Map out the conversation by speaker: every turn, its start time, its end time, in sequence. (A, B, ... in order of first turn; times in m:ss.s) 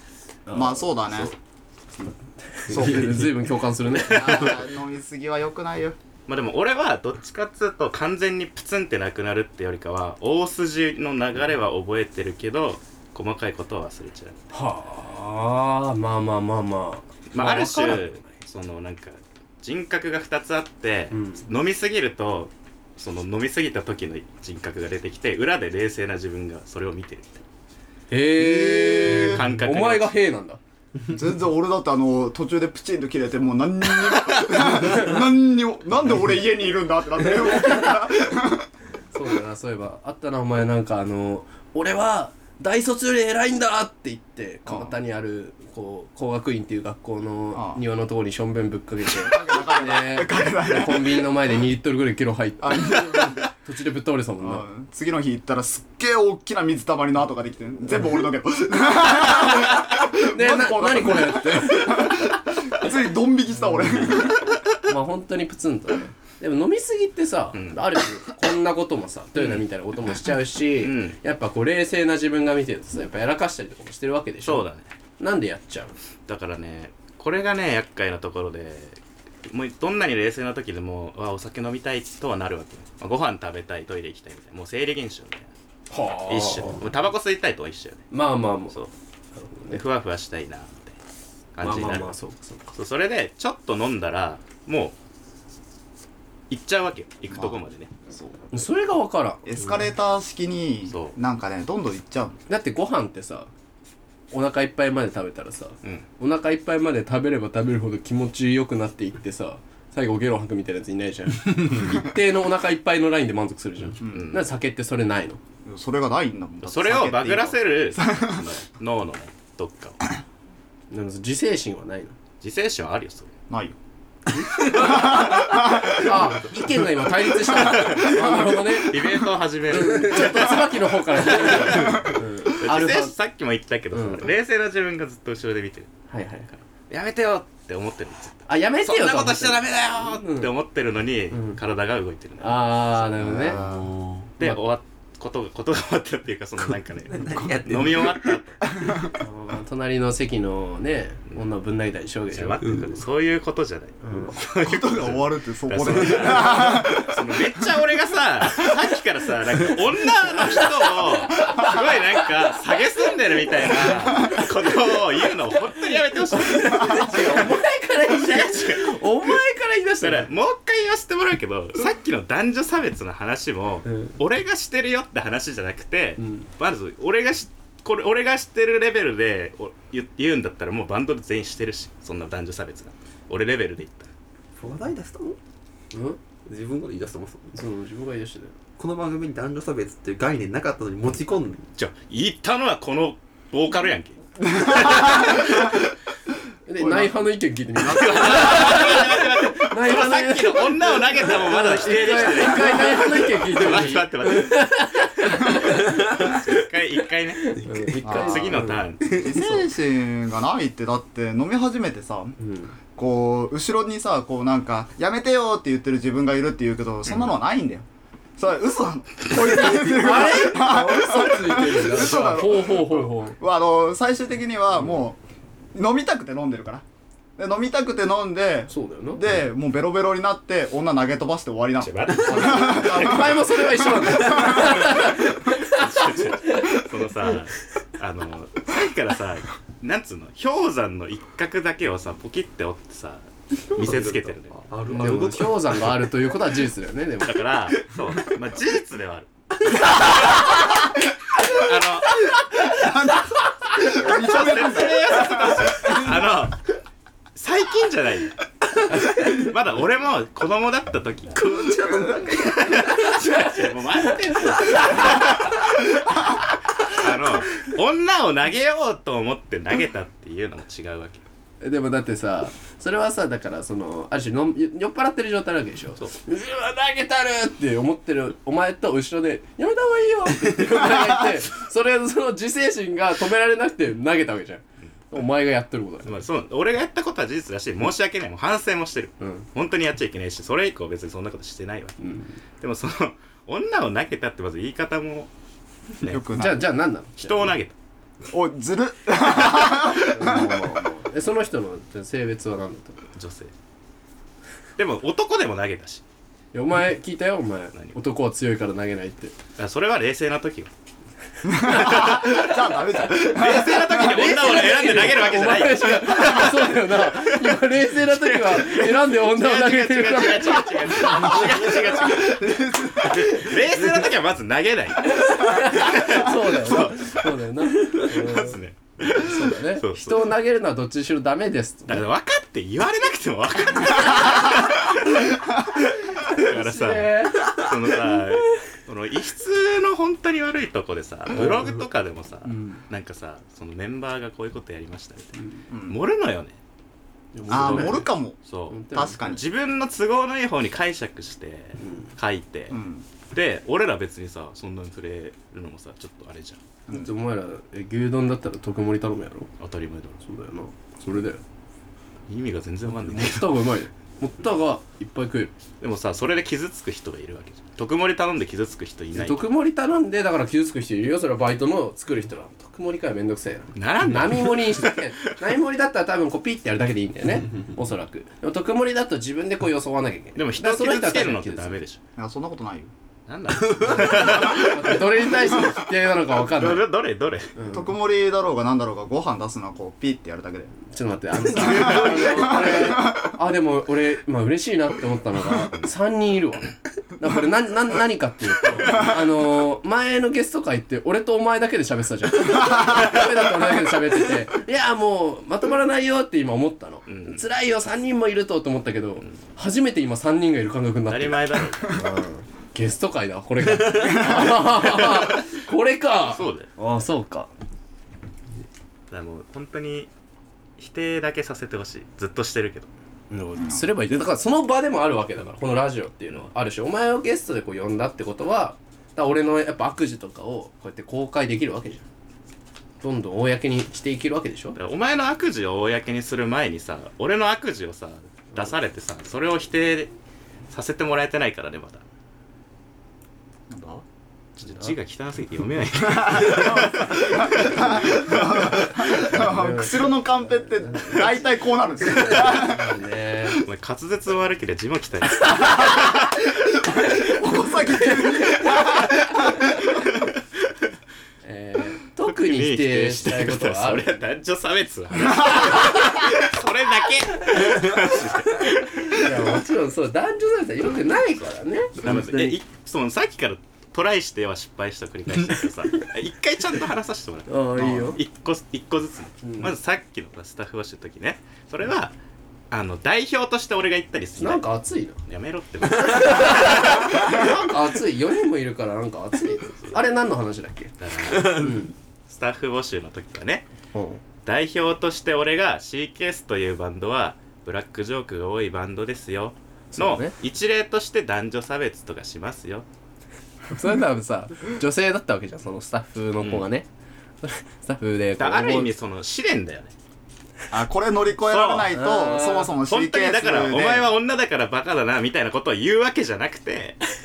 0:00.5-0:01.4 A
0:00.5-0:01.3 B
0:02.0-0:04.6 A
0:02.7-0:03.3 B
0:02.8-0:03.2 C
0:04.0-0:06.0 B
0:06.3-0:14.5 D
0:14.5-0:18.2 A
0:17.3-0:27.4 D
0:21.1-0:21.4 A
0:28.1-0:30.6 A
0:28.4-0:29.4 B
0:29.1-0:30.1 D
0:31.1-0:38.7 B
0:37.4-0:37.9 A
0:39.1-0:54.7 A
0:44.7-0:44.9 B
0:47.5-0:47.8 B
0:49.1-0:51.3 B
0:52.6-0:53.4 B
0:54.4-1:04.5 B
0:59.4-1:02.4 A
1:03.6-1:04.3 A
1:04.8-1:14.7 A
1:07.5-1:07.8 D
1:09.4-1:09.6 D
1:10.8-1:11.2 D
1:14.4-1:14.9 D
1:15.2-1:16.0 A
1:16.3-1:25.5 D
1:25.9-1:26.9 A
1:26.3-1:28.1 D
1:28.1-1:29.8 A
1:29.7-1:31.0 D
1:31.6-1:32.1 D
1:31.6-1:32.7 A
1:32.7-1:35.0 D
1:36.5-1:38.0 D
1:37.3-1:37.6 B
1:38.5-1:39.6 A
1:39.4-1:42.4 B
1:40.9-1:41.2 D
1:42.5-1:43.5 A
1:44.3-1:55.4 A
1:54.0-1:54.3 B
1:54.0-1:54.5 D
1:55.6-1:58.4 B
1:56.6-2:00.1 D
2:00.9-2:02.2 A
2:02.4-2:03.3 D
2:03.5-2:03.8 B
2:04.4-2:09.0 A
2:04.7-2:06.4 B
2:07.4-2:09.1 B
2:07.5-2:15.9 D
2:09.7-2:13.2 A
2:11.8-2:12.2 B
2:13.9-2:14.3 A
2:16.1-2:16.5 A
2:16.8-2:23.1 D
2:18.5-2:20.5 A
2:21.3-2:21.6 A
2:22.4-2:23.6 A
2:23.2-2:23.9 B
2:23.5-2:24.3 C
2:24.4-2:28.7 D
2:27.1-2:28.4 C
2:28.6-2:29.1 B
2:29.2-2:32.8 A
2:32.3-2:49.3 D
2:32.6-2:32.9 C
2:34.0-2:34.4 A
2:34.6-2:37.5 B
2:36.5-2:36.8 A
2:40.2-2:42.8 A
2:43.4-2:44.9 A
2:45.5-2:50.3 A
2:50.0-3:04.1 D
2:56.2-2:56.5 A
3:04.6-3:05.4 C
3:05.9-3:06.2 A
3:06.5-3:07.6 C
3:07.6-3:08.6 A
3:08.8-3:11.7 C
3:11.8-3:15.9 D
3:14.4-3:15.4 B
3:15.0-3:15.6 A
3:16.7-3:26.6 A
3:16.8-3:17.1 B
3:17.8-3:29.3 D
3:17.8-3:18.6 B
3:25.8-3:26.3 C
3:27.4-3:28.8 A
3:27.6-3:28.0 C
3:28.0-3:32.4 B
3:29.0-3:29.4 C
3:32.4-3:32.8 A
3:33.0-3:37.8 B
3:38.4-3:45.2 B
3:39.4-3:43.4 A
3:45.7-3:46.8 B
3:47.4-3:54.8 B
3:48.7-3:49.2 A
3:51.8-3:53.5 D
3:52.2-3:56.9 A
3:54.5-4:05.3 D
4:03.8-4:05.9 C
4:04.9-4:07.4 A
4:07.2-4:10.7 D
4:11.4-4:12.3 D
4:12.6-4:16.2 B
4:13.9-4:16.7 D
4:17.4-4:21.5 D
4:21.4-4:23.2 C
4:21.8-4:22.4 B
4:22.4-4:31.2 D
4:23.2-4:25.4 A
4:31.6-4:46.2 A
4:46.0-4:52.0 D
4:49.2-4:49.5 A
4:52.0-4:52.4 A
4:52.6-4:55.3 D
4:56.0-4:56.6 B
4:56.3-4:57.5 A
4:57.2-4:57.8 D
4:58.3-5:00.7 B
4:59.9-5:03.0 A
5:03.2-5:03.5 D
5:04.8-5:06.0 D
5:06.5-5:09.4 A
5:09.6-5:10.7 D
5:11.4-5:14.4 B
5:11.5-5:21.8 A
5:11.7-5:12.3 D
5:13.2-5:30.3 D
5:21.3-5:23.6 B
5:25.0-5:32.0 A
5:31.9-5:46.6 D
5:36.1-5:38.2 A
5:45.7-5:46.0 B
5:47.3-5:48.1 A
5:47.5-5:48.4 B
5:47.7-5:56.6 D
5:48.7-5:49.2 A
5:48.9-5:49.4 B
5:52.7-5:53.1 B
5:56.9-5:59.5 A
5:59.6-6:00.2 D
6:00.2-6:01.4 A
6:02.3-6:03.6 D
6:02.9-6:05.5 A
6:05.8-6:09.4 D
6:09.2-6:21.7 A
6:13.8-6:15.1 D
6:20.4-6:22.0 D
6:22.2-6:22.9 B
6:23.3-6:25.7 D
6:23.8-6:26.8 A
6:26.5-6:27.5 D
6:27.6-6:27.9 A
6:27.7-6:30.7 B
6:30.9-6:57.5 A
6:31.6-6:33.3 B
6:31.6-6:32.4 D
6:31.7-6:32.4 C
6:38.8-6:39.2 B
6:47.1-6:47.4 D
6:51.1-6:52.0 D
6:53.9-6:54.5 B
6:54.8-6:55.5 D
6:56.3-6:56.7 D
6:59.1-7:00.1 D
7:00.8-7:02.9 D
7:03.3-7:12.1 A
7:03.6-7:03.8 B
7:13.0-7:14.8 A
7:14.8-7:20.1 D
7:20.7-7:22.0 D
7:23.7-7:24.0 B
7:24.6-7:28.6 D
7:26.2-7:32.9 B
7:28.4-7:31.4 A
7:32.0-7:33.6 A
7:33.6-7:36.4 D
7:35.4-7:35.9 A
7:36.9-7:37.4 A
7:36.9-7:39.8 B
7:37.9-7:39.8 A
7:40.0-7:40.3 D
7:41.4-7:44.1 A
7:42.2-7:49.3 D
7:45.9-7:46.2 A
7:49.1-7:52.6 A
7:52.0-8:02.2 D
7:57.5-7:58.2 A
7:59.4-7:59.7 A
8:02.7-8:04.6 D
8:04.4-8:05.2 A
8:05.3-8:07.5 D
8:05.8-8:11.9 A
8:11.0-8:13.7 D
8:13.9-8:14.2 A
8:14.4-8:22.9 D
8:19.9-8:20.3 A
8:23.7-8:26.9 A
8:27.4-8:28.9 A
8:28.4-8:29.9 D
8:30.7-8:34.1 B
8:31.5-8:31.9 D
8:31.9-8:32.7 A
8:32.9-8:37.0 D